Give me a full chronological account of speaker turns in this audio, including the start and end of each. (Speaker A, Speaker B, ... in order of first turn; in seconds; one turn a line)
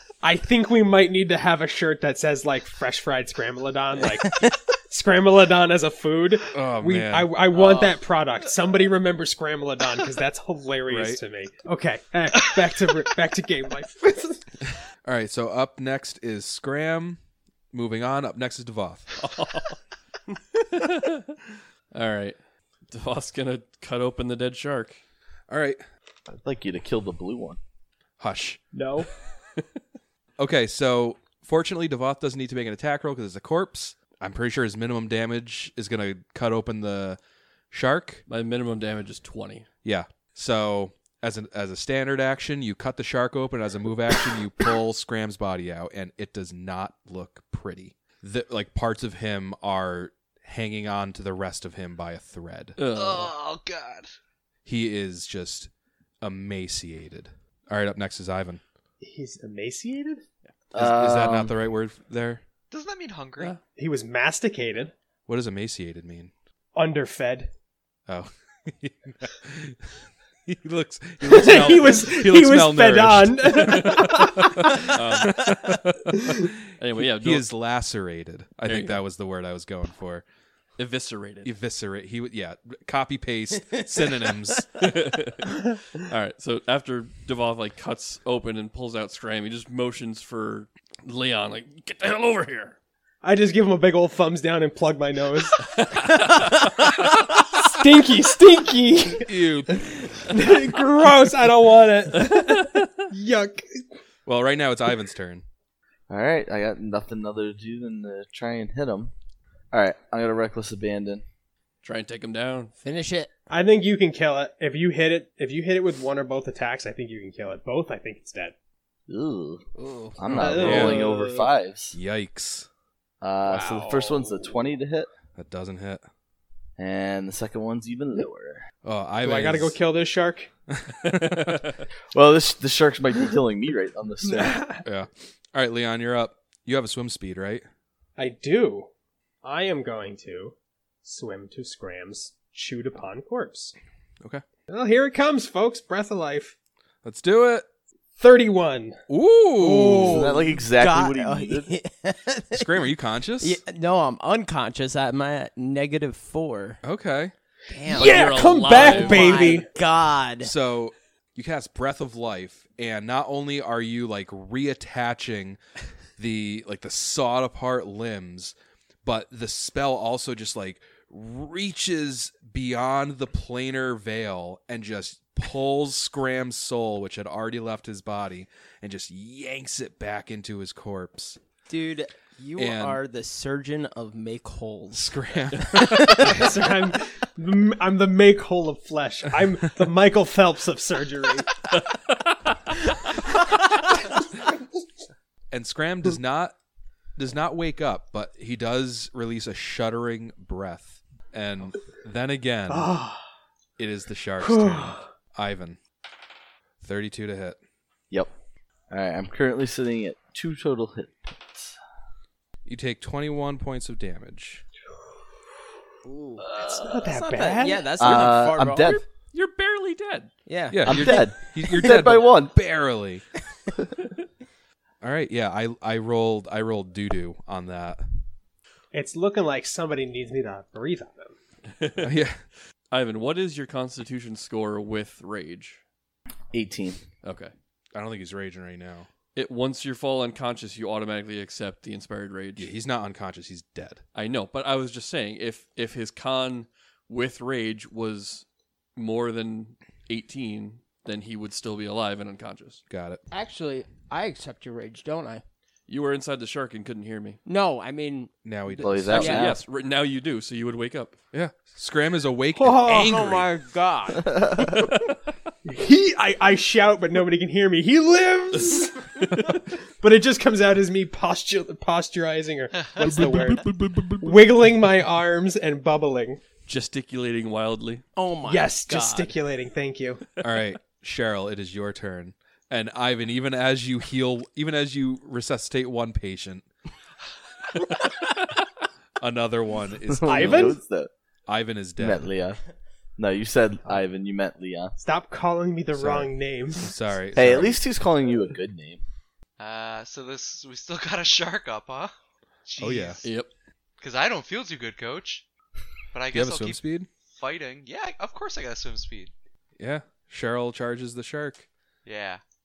Speaker A: 0.2-14.6
Speaker B: 4.0-4.6
Speaker C: 6.5-7.3
Speaker D: 7.5-8.0
Speaker C: 10.9-11.2
Speaker C: 15.0-17.2
Speaker C: 17.7-19.2
Speaker E: 19.2-19.8
Speaker E: 20.5-22.4
Speaker E: 22.9-25.0
Speaker C: 25.5-25.8
Speaker F: 26.3-27.6
Speaker C: 28.2-28.6
Speaker A: 28.7-29.1
Speaker C: 30.4-37.2
Speaker C: 37.7-38.2
Speaker E: 38.3-39.7
Speaker C: 39.8-52.8
Speaker E: 52.8-53.3
Speaker D: 52.9-54.1
Speaker C: 54.6-55.7
Speaker C: 56.2-58.6
Speaker A: 59.0-60.2
Speaker F: 60.7-61.5
Speaker C: 60.8-62.4
Speaker D: 62.7-63.6
Speaker A: 63.7-64.9
Speaker C: 65.3-66.3
Speaker A: 66.7-67.5
Speaker C: 68.1-80.2
Speaker A: 71.2-75.0
Speaker E: 74.8-75.6
Speaker A: 76.1-76.5
Speaker E: 76.8-77.5
Speaker E: 78.7-79.0
Speaker E: 80.8-81.5
Speaker C: 81.4-84.9
Speaker E: 84.8-92.7
Speaker A: 93.2-95.7
Speaker E: 96.0-96.6
Speaker A: 97.1-99.4
Speaker C: 99.1-99.9
Speaker A: 100.3-103.8
Speaker E: 102.2-102.8
Speaker C: 104.2-105.4
Speaker F: 106.1-109.1
Speaker F: 109.7-111.2
Speaker E: 111.8-112.7
Speaker B: 112.8-113.3
Speaker A: 113.5-118.5
Speaker F: 119.1-119.6
Speaker B: 119.8-120.2
Speaker F: 120.2-122.0
Speaker C: 120.2-121.1
Speaker A: 120.4-121.5
Speaker C: 121.9-122.7
Speaker F: 123.2-125.1
Speaker A: 123.5-124.5
Speaker C: 125.3-126.0
Speaker F: 126.8-128.6
Speaker C: 128.8-129.8
Speaker A: 129.2-130.5
Speaker C: 130.7-131.7
Speaker E: 131.1-131.8
Speaker F: 132.1-134.6
Speaker A: 134.3-134.8
Speaker C: 134.8-137.6
Speaker A: 138.2-138.9
Speaker A: 139.4-143.7
Speaker A: 144.7-146.5
Speaker C: 147.0-147.7
Speaker A: 148.2-149.0
Speaker C: 149.1-150.2
Speaker B: 149.6-152.8
Speaker F: 149.9-151.7
Speaker C: 152.5-153.6
Speaker B: 153.4-156.8
Speaker C: 156.8-157.3
Speaker B: 157.7-160.5
Speaker A: 157.8-159.7
Speaker E: 157.9-159.5
Speaker C: 160.4-165.6
Speaker C: 166.2-181.4
Speaker B: 181.7-185.2
Speaker C: 182.6-183.0
Speaker C: 184.9-186.6
Speaker B: 185.7-186.4
Speaker A: 186.2-191.5
Speaker E: 191.7-192.9
Speaker C: 195.5-196.6
Speaker C: 197.2-202.9
Speaker A: 202.7-203.2
Speaker C: 203.8-205.8
Speaker A: 204.4-205.1
Speaker C: 206.8-207.6
Speaker F: 208.9-211.7
Speaker C: 212.6-214.6
Speaker B: 216.0-216.5
Speaker F: 216.4-217.0
Speaker A: 216.7-218.2
Speaker B: 217.1-219.0
Speaker F: 217.9-219.0
Speaker E: 219.3-220.3
Speaker B: 220.4-222.0
Speaker C: 220.7-223.2
Speaker F: 220.8-222.5
Speaker C: 225.0-228.0
Speaker A: 228.9-231.3
Speaker E: 231.7-232.2
Speaker C: 232.0-232.4
Speaker E: 232.9-235.8
Speaker F: 236.5-237.0
Speaker E: 237.2-237.5
Speaker C: 237.9-239.1
Speaker E: 239.3-242.7
Speaker C: 242.6-244.0
Speaker E: 244.1-248.4
Speaker E: 248.9-252.8
Speaker C: 252.9-253.2
Speaker B: 253.3-255.4
Speaker E: 255.9-257.4
Speaker B: 257.4-259.5
Speaker C: 258.4-259.4
Speaker F: 258.8-259.6
Speaker E: 259.1-261.1
Speaker C: 261.3-263.5
Speaker B: 262.6-264.7
Speaker F: 264.2-264.8
Speaker E: 264.7-265.1
Speaker A: 265.6-273.7
Speaker E: 268.7-269.6
Speaker D: 272.8-273.2
Speaker C: 273.0-274.4
Speaker E: 273.1-274.0
Speaker A: 274.2-276.4
Speaker E: 276.6-278.0
Speaker B: 278.1-279.3
Speaker A: 278.4-280.2
Speaker C: 280.4-286.6
Speaker C: 289.2-290.8
Speaker F: 290.1-291.1
Speaker A: 290.2-290.8
Speaker C: 291.5-292.3
Speaker F: 292.0-292.6
Speaker F: 293.2-295.0
Speaker A: 295.0-296.9
Speaker C: 295.9-297.8
Speaker F: 297.3-299.0
Speaker D: 299.6-302.1
Speaker D: 302.6-303.2
Speaker C: 302.8-303.2
Speaker E: 303.2-303.5
Speaker D: 304.0-305.4
Speaker D: 306.1-309.3
Speaker C: 306.3-307.1
Speaker C: 309.8-311.7
Speaker D: 312.0-312.4